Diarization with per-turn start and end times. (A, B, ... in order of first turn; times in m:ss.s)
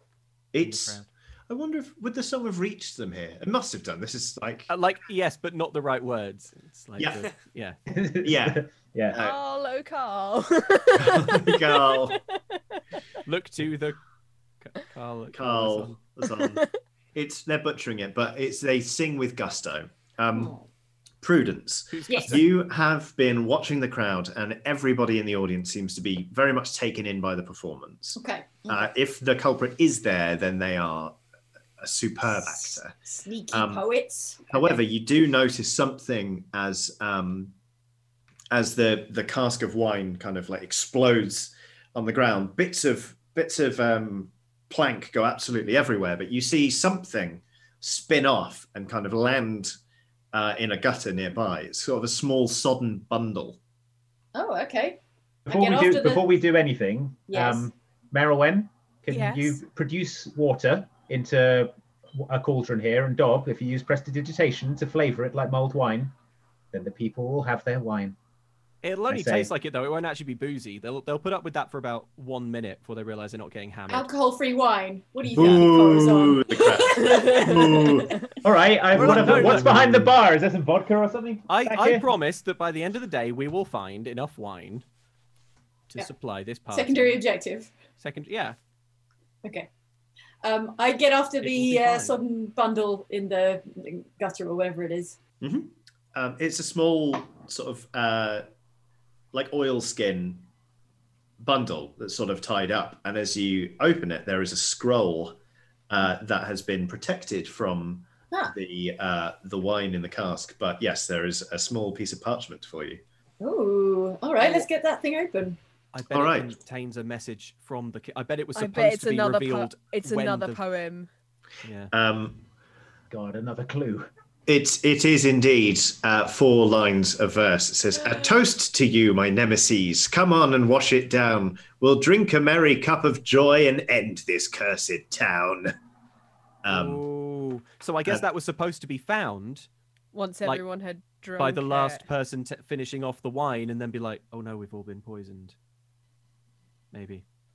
0:00.5-0:04.7 A
0:00.6-0:01.1 B
0:04.7-0:07.8 B
0:07.0-0:07.3 A
0:07.9-0:09.2 C
0:08.2-0:09.4 A
0:09.2-0:12.3 D
0:11.0-0:12.2 A
0:13.3-0:14.0 B
0:14.6-0:16.0 B
0:15.3-0:16.6 A
0:16.3-0:16.8 D
0:17.1-0:20.6 A
0:21.2-0:31.2 A
0:21.9-0:22.6 B
0:22.1-0:22.4 E
0:28.2-0:28.9 E
0:31.8-0:33.0 A
0:32.4-0:34.8 E
0:33.5-0:33.9 A
0:34.5-0:37.5 A
0:38.5-0:49.8 A
0:50.3-0:53.6 A
0:54.4-0:56.3 E
0:55.5-1:06.1 C
0:57.3-0:57.7 E
0:59.1-0:59.6 D
1:06.7-1:08.2 C
1:08.8-1:14.1 B
1:09.1-1:09.5 C
1:13.9-1:17.9 E
1:15.3-1:18.2 A
1:15.3-1:15.7 B
1:17.0-1:18.1 D
1:18.4-1:22.1 C
1:18.9-1:20.0 B
1:18.9-1:20.1 A
1:21.5-1:24.8 B
1:25.9-1:27.2 B
1:26.7-1:27.7 E
1:28.0-1:28.6 B
1:29.4-1:29.7 E
1:30.4-1:35.2 E
1:31.4-1:32.2 B
1:35.4-1:38.4 A
1:39.3-1:40.5 A
1:41.4-1:45.4 A
1:45.9-1:53.0 A
1:53.4-1:55.6 E
1:55.9-2:00.6 B
1:56.1-1:56.6 A
1:58.5-2:01.1 D
2:01.6-2:01.9 B
2:01.9-2:02.4 A
2:03.1-2:04.1 C
2:04.5-2:15.7 A
2:16.6-2:17.0 A
2:16.7-2:19.7 B
2:20.1-2:22.1 D
2:21.4-2:25.6 B
2:26.9-2:27.2 B